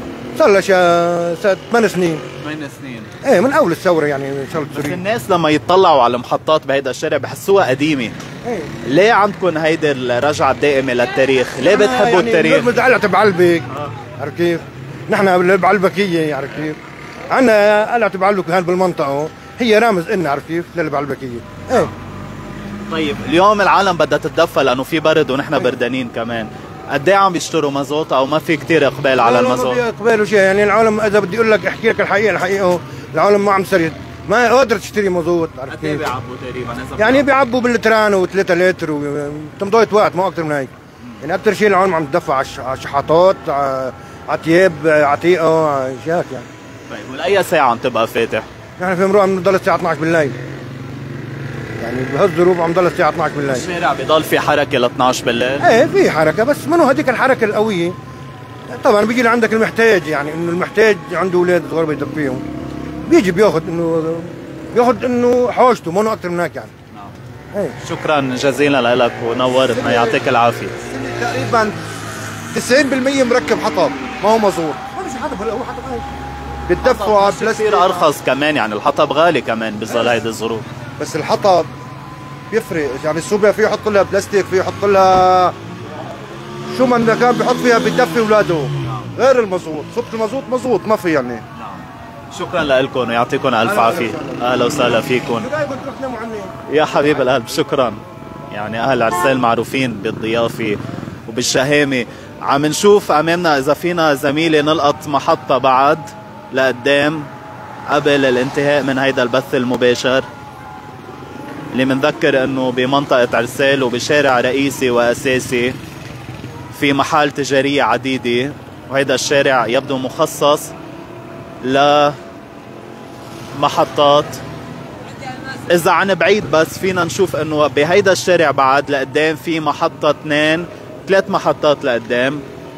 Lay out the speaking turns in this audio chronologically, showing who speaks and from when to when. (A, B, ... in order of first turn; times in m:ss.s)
0:00.4-0:02.2 A
0:02.4-0:03.1 B
0:03.2-0:05.0 A
0:04.7-0:08.1 B
0:08.4-0:08.7 A
0:08.8-0:12.7 B
0:11.6-0:16.8 A
0:17.3-0:21.9 A
0:22.9-0:29.8 B
0:29.1-0:36.1 A
0:35.7-0:37.2 B
0:37.0-0:40.7 A
0:41.2-0:46.5 A
0:46.9-0:48.4 B
0:48.8-0:50.4 A
0:51.8-0:53.6 A
0:53.5-0:55.7 B
0:55.6-0:58.0 A
0:58.7-1:02.4 A
1:03.1-1:06.7 A
1:07.8-1:10.8 B
1:09.6-1:10.2 A
1:10.8-1:11.8 A
1:12.5-1:16.0 A
1:16.7-1:18.1 A
1:16.8-1:20.6 B
1:19.9-1:20.1 A
1:21.0-1:21.7 A
1:22.5-1:25.5 A
1:26.7-1:31.4 A
1:28.8-1:29.1 B
1:31.6-1:35.5 B
1:33.6-1:34.7 A
1:35.4-1:36.6 A
1:36.7-1:47.3 B
1:47.9-1:50.2 B
1:51.7-1:55.8 B
1:56.7-2:00.7 B
2:01.6-2:02.2 B
2:03.5-2:04.4 B
2:05.6-2:12.4 B